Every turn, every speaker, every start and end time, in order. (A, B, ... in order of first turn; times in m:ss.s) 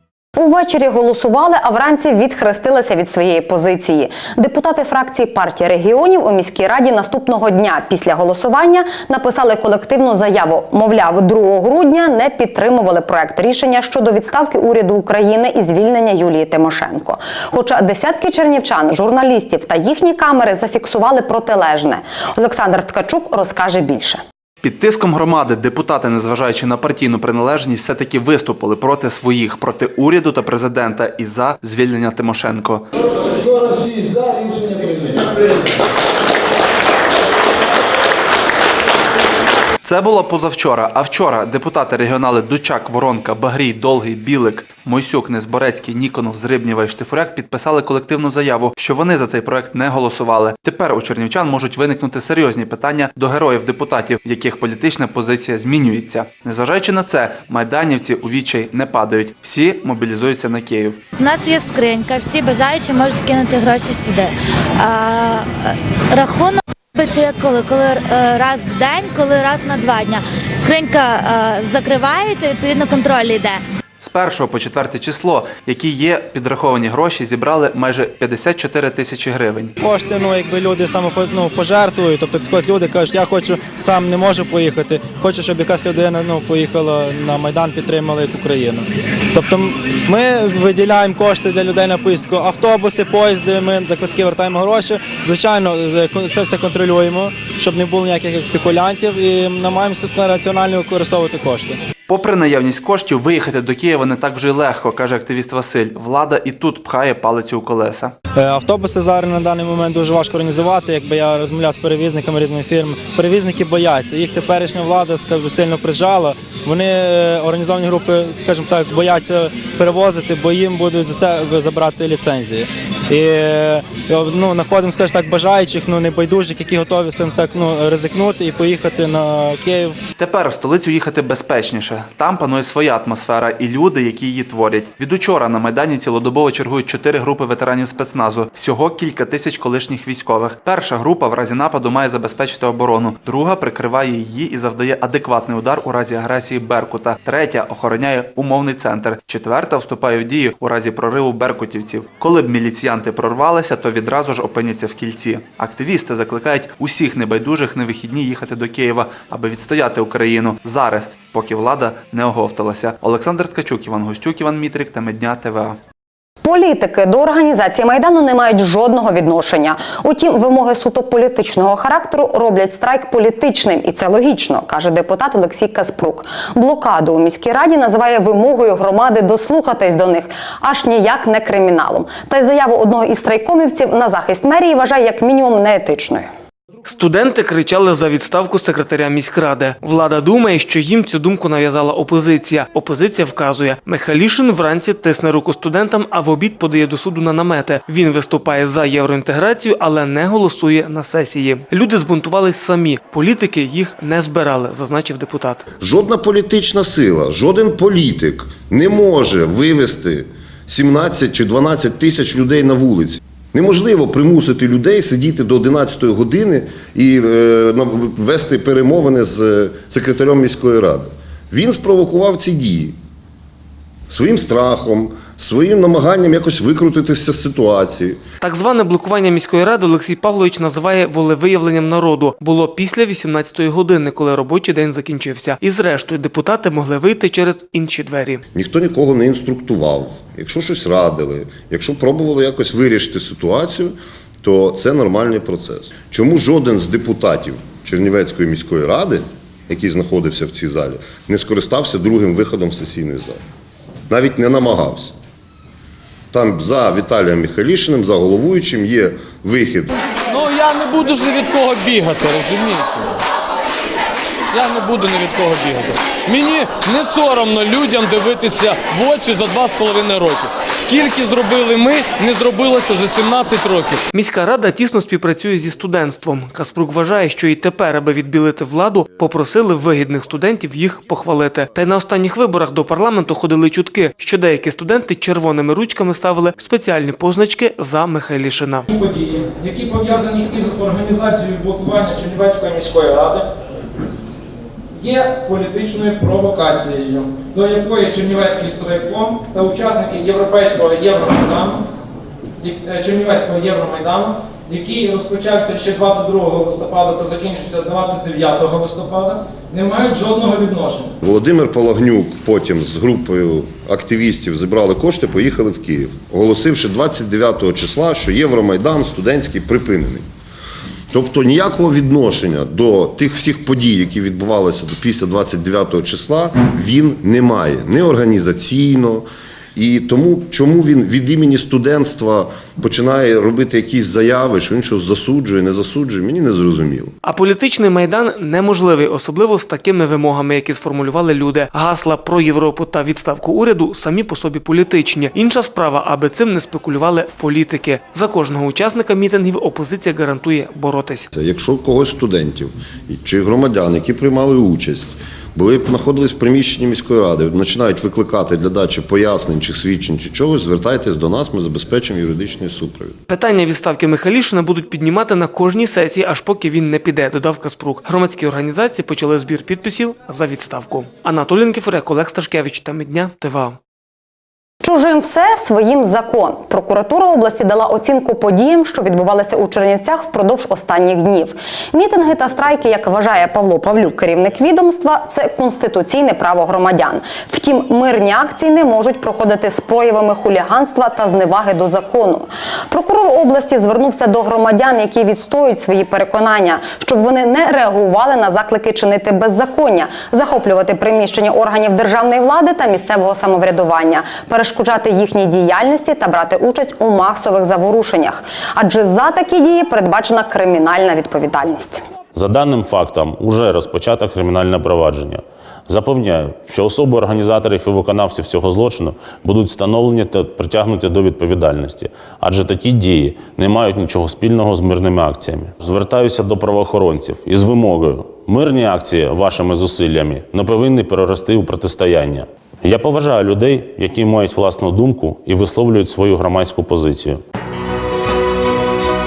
0:00.4-0:24.2 A
0:24.6-0:32.8 B
0:39.8-1:01.0 B
1:01.2-1:13.6 C
1:14.0-1:19.7 B
1:19.8-1:41.7 D
1:42.1-1:48.1 B
1:48.4-2:09.9 D
2:10.2-2:45.8 B
2:46.4-3:06.3 A
3:06.8-3:25.6 E
3:25.8-3:43.0 F
3:44.1-3:48.2 F
3:48.4-3:58.4 E
3:58.5-4:13.4 F
4:14.1-4:15.1 F
4:16.3-4:19.9 F
4:20.3-4:23.1 G
4:24.5-4:34.0 G
4:34.1-4:48.9 E
4:48.9-4:53.4 H
4:55.0-5:01.8 H
5:02.6-5:11.1 H
5:11.2-5:20.2 F
5:21.1-5:37.1 F
5:37.2-5:51.3 E
5:51.3-6:03.2 F
6:03.3-6:13.8 E
6:14.8-6:52.0 A
6:52.3-7:17.4 I